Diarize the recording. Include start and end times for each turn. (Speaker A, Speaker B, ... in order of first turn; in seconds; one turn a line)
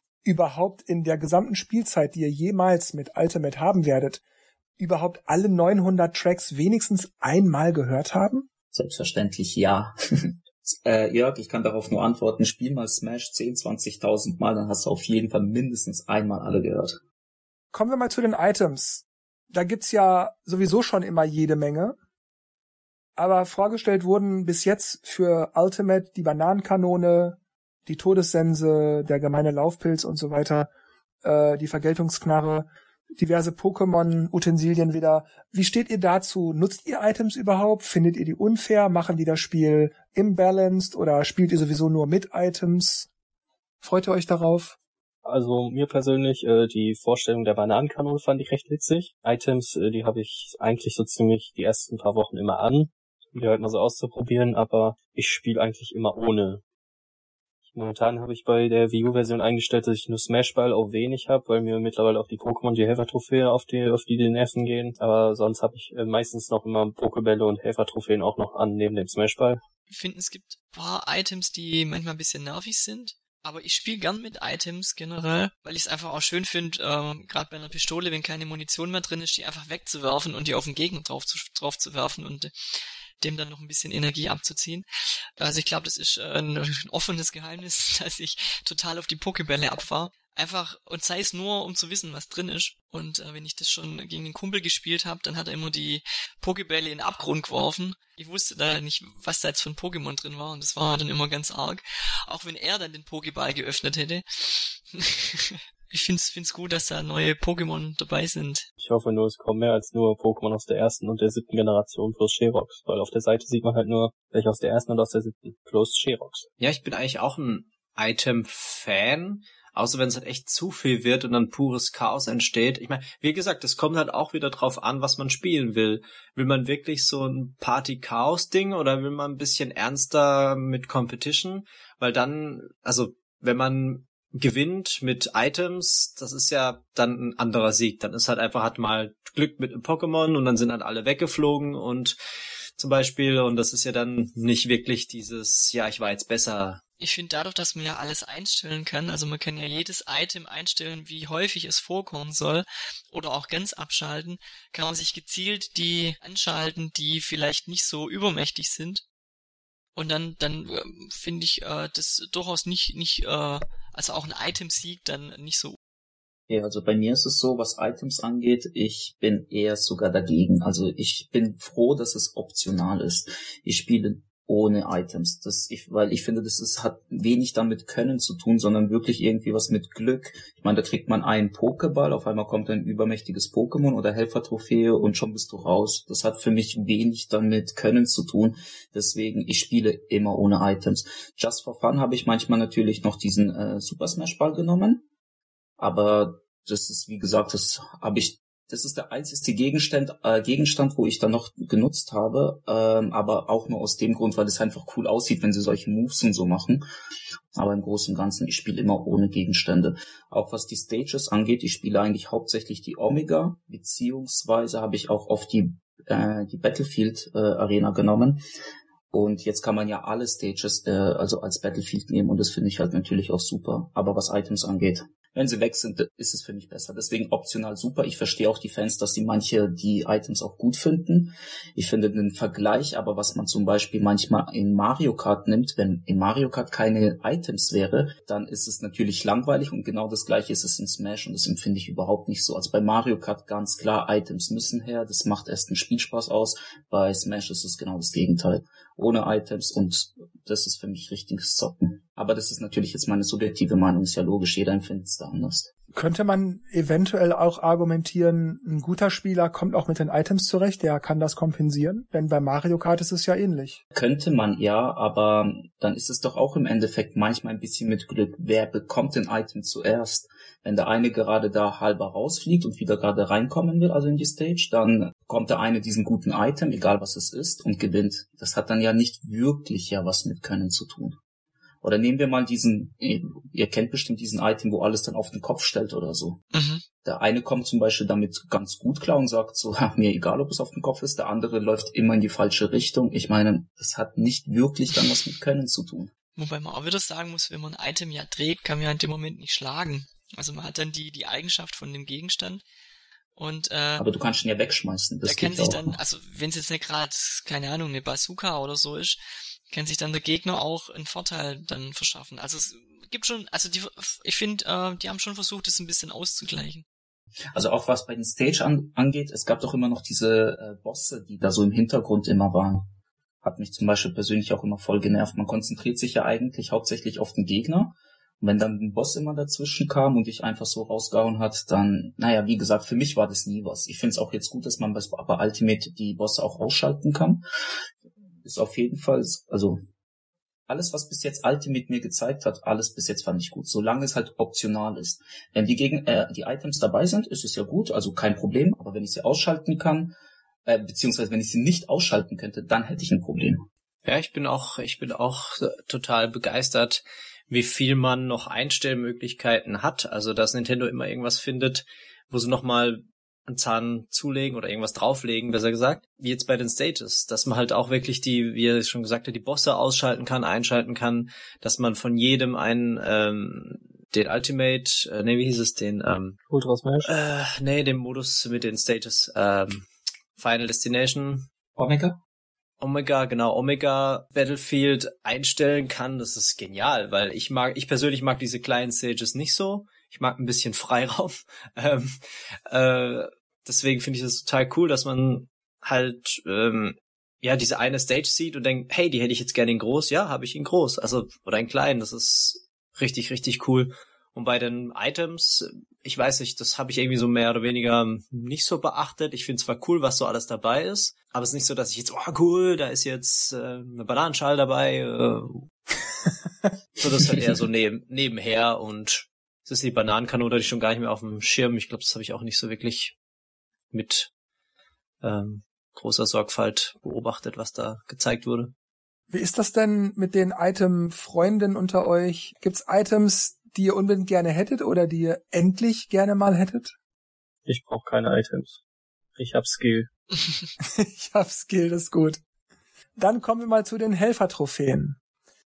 Speaker A: 0.2-4.2
Speaker A: 4.8-8.5
Speaker B: 8.7-17.0
Speaker A: 17.7-22.0
Speaker A: 23.2-30.7
Speaker A: 31.2-43.1
Speaker A: 43.8-44.8
Speaker C: 45.2-56.6
Speaker C: 57.7-69.6
Speaker D: 69.9-82.5
Speaker D: 83.2-84.9
Speaker D: 85.4-108.7
Speaker C: 108.8-116.5
Speaker E: 116.6-142.2
Speaker E: 142.8-146.8
Speaker D: 147.0-159.0
Speaker D: 159.9-165.8
Speaker B: 166.5-195.1
Speaker B: 195.8-206.8
Speaker B: 207.5-218.4
Speaker B: 219.1-255.7
Speaker A: 255.9-263.8
Speaker B: 263.9-281.2
Speaker B: 281.8-286.4
Speaker D: 286.5-286.8
Speaker B: 287.0-296.1
Speaker D: 296.4-302.6
Speaker D: 303.4-304.0
Speaker B: 304.0-306.0
Speaker D: 305.2-316.9
Speaker B: 317.5-322.9
Speaker B: 323.4-337.4
Speaker B: 338.4-339.8
Speaker B: 340.7-350.1
Speaker B: 350.7-353.6
Speaker E: 354.1-376.4
Speaker C: 376.5-377.1
Speaker E: 377.0-381.5
Speaker B: 381.8-382.2
Speaker E: 382.8-415.7
Speaker E: 417.0-423.2
Speaker E: 423.9-424.3
Speaker E: 425.2-428.7
Speaker A: 429.3-436.9
Speaker C: 437.7-438.8
Speaker C: 439.4-440.1
Speaker A: 440.8-442.4
Speaker A: 443.2-445.2